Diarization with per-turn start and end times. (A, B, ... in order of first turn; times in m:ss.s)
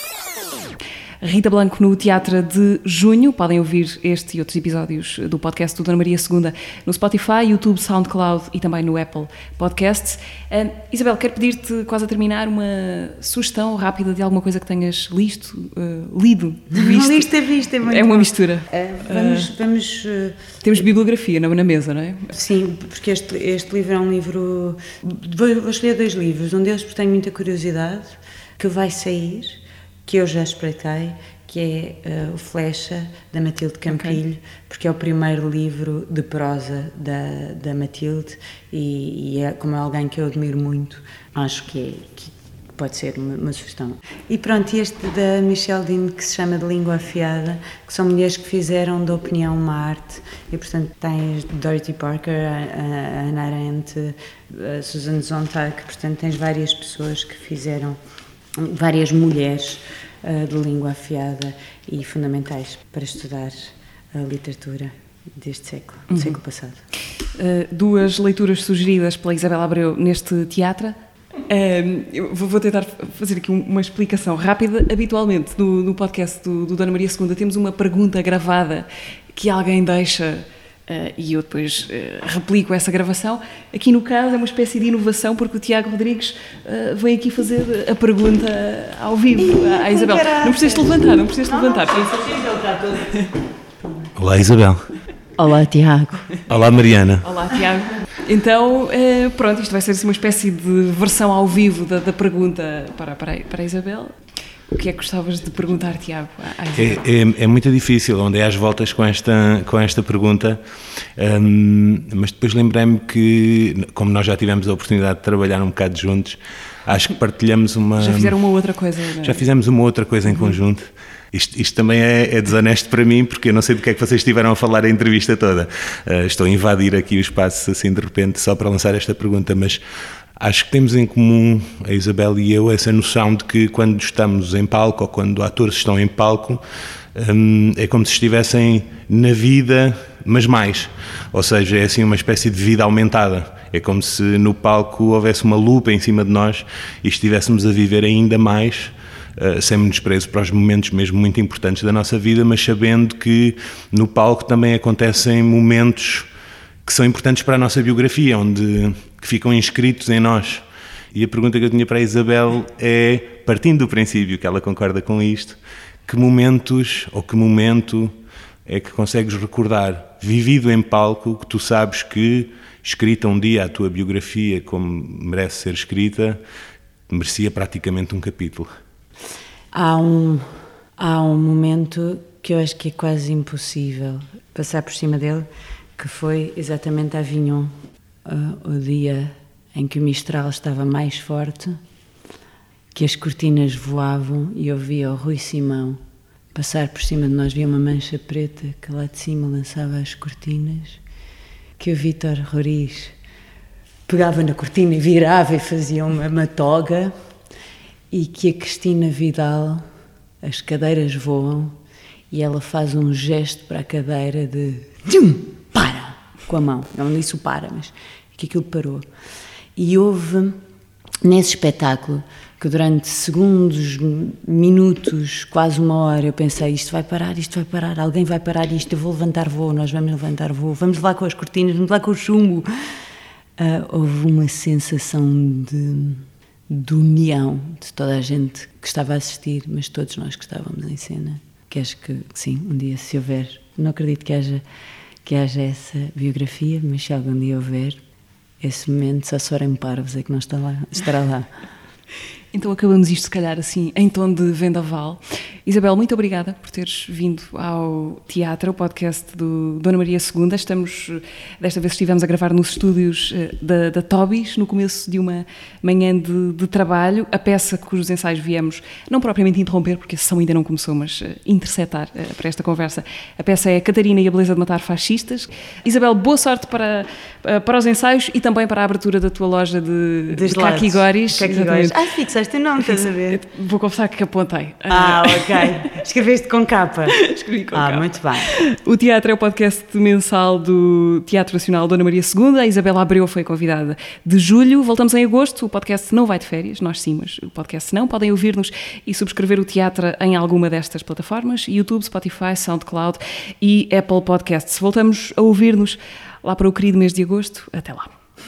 0:01.2-0:17.3 A
0:16.7-0:20.8 B
0:17.8-0:19.5 A
0:20.6-0:22.3 A
0:22.3-0:58.0 B
0:33.9-0:34.2 A
0:58.6-1:06.8 B
1:06.1-1:06.4 A
1:07.2-1:33.3 A
1:29.4-1:33.0 B
1:34.2-1:34.9 C
1:35.4-1:36.4 B
1:36.5-1:37.3 C
1:37.2-1:44.2 A
1:44.7-1:47.0 A
1:46.8-1:50.6 C
1:51.2-1:58.4 C
1:58.0-1:59.4 A
1:59.2-2:09.8 C
2:00.3-2:00.6 A
2:10.4-2:16.6 C
2:17.1-2:36.3 C
2:36.8-2:48.1 C
2:48.6-2:56.4 C
2:57.1-2:58.7 C
2:59.7-3:07.7 B
3:08.2-3:11.8 B
3:12.9-3:16.0 B
3:16.5-3:21.0 B
3:21.8-3:23.1 B
3:24.1-3:27.1 B
3:28.1-3:29.8 B
3:30.4-3:31.8 B
3:32.3-3:39.0 B
3:39.8-3:40.6 B
3:41.2-3:52.7 B
3:53.6-4:04.6 B
4:05.2-4:08.0 B
4:08.6-4:11.5 B
4:12.5-4:42.0 A
4:40.3-4:43.4 B
4:42.9-4:45.9 A
4:44.9-4:48.5 B
4:47.1-5:08.1 A